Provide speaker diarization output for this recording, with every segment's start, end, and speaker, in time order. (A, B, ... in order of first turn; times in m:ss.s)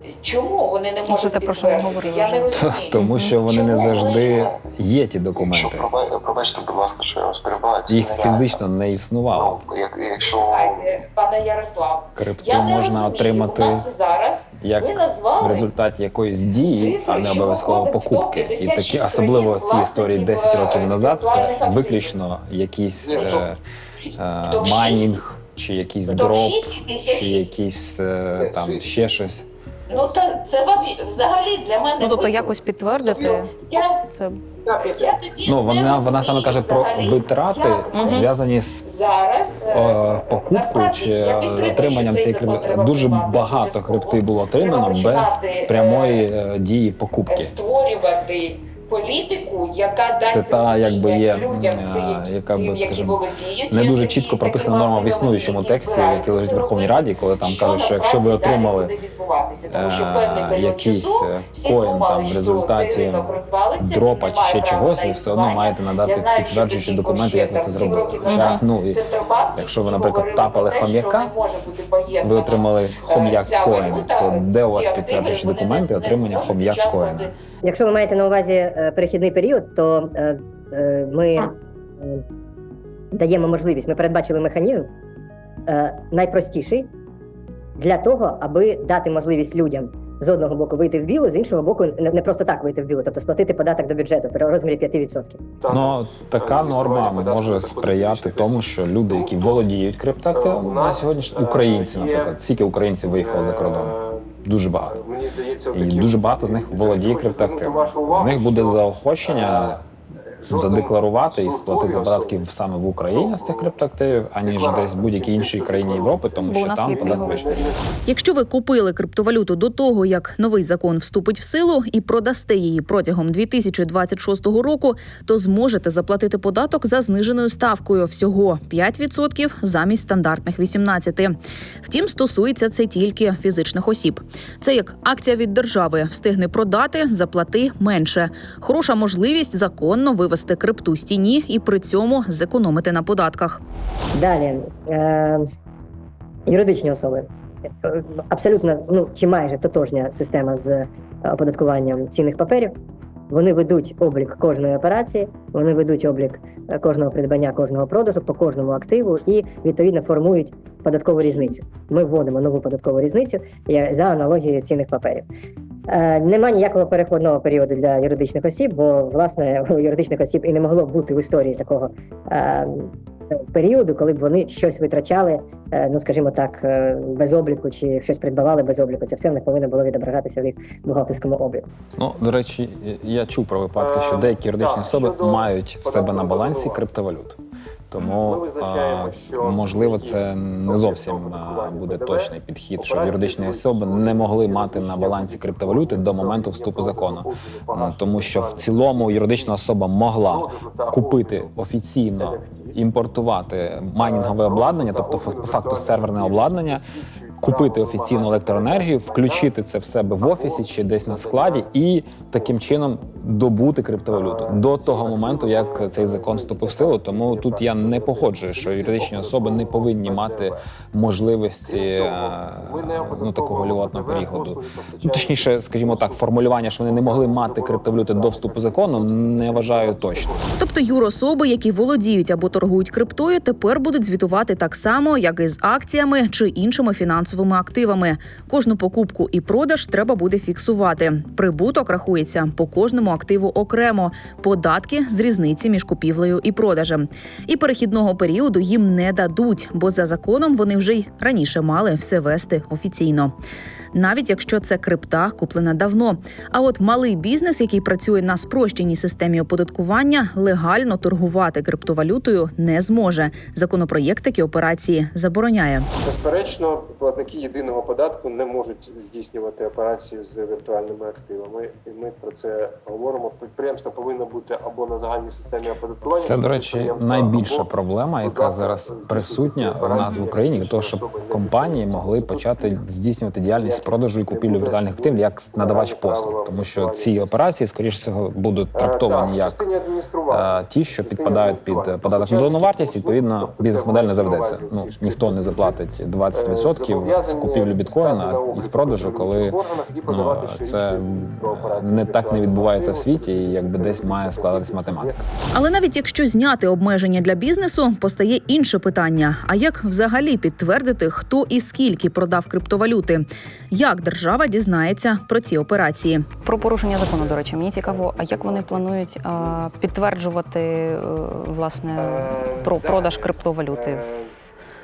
0:00.2-0:04.5 A
0:01.0-0:03.3 B
0:02.5-0:05.9 C
0:05.4-0:08.5 D
0:07.9-0:09.6 C
0:09.3-0:11.0 D
0:10.2-0:15.7 A
0:12.2-0:13.9 C
0:14.6-0:23.6 C
0:16.6-0:22.1 A
0:23.0-0:23.5 E
0:23.1-0:23.4 A
0:24.2-0:29.4 C
0:24.4-0:25.2 A
0:26.1-0:27.5 A
0:28.4-0:28.9 E
0:29.9-0:34.0 A
0:32.0-0:33.5 B
0:34.1-0:34.4 B
0:34.6-0:35.1 E
0:34.8-0:38.3 A
0:35.4-0:38.8 C
0:37.9-0:38.3 B
0:38.8-0:46.2 A
0:39.7-0:47.6 C
0:47.3-1:17.3 A
0:50.3-0:58.9 C
0:59.7-1:09.0 C
1:08.3-1:08.6 B
1:09.5-1:11.3 C
1:12.2-1:17.3 C
1:17.6-1:22.2 F
1:23.1-1:24.9 F
1:25.7-1:26.9 F
1:27.8-1:35.4 F
1:35.6-1:39.6 E
1:35.7-1:45.0 C
1:40.3-1:42.4 E
1:43.1-1:49.8 E
1:45.7-1:49.8 C
1:50.4-1:52.4 E
1:50.4-1:57.7 C
1:53.1-1:53.8 E
1:54.4-1:57.8 E
1:56.4-1:57.4 B
1:58.0-2:23.6 G
2:24.1-2:25.4 F
2:26.5-2:27.3 F
2:27.8-2:32.7 F
2:33.3-2:45.2 F
2:45.9-2:52.9 F
2:53.5-3:01.6 F
3:02.0-3:07.4 C
3:03.8-3:06.8 E
3:07.9-3:26.8 C
3:08.0-3:19.6 E
3:20.2-3:21.5 E
3:22.2-3:22.8 E
3:24.0-3:29.6 E
3:27.4-3:50.4 C
3:30.2-3:31.7 E
3:32.3-3:32.8 E
3:34.1-3:40.6 E
3:41.6-3:46.3 E
3:46.8-3:50.5 E
3:50.6-4:13.3 G
4:13.9-4:25.9 G
4:26.0-4:42.8 E
4:36.1-4:49.6 C
4:43.6-4:47.3 E
4:48.7-4:55.8 E
4:50.3-5:05.2 C
4:56.3-5:05.2 E
5:05.5-5:16.3 G
5:16.4-5:24.0 B
5:17.1-5:19.9 E
5:22.0-5:24.3 E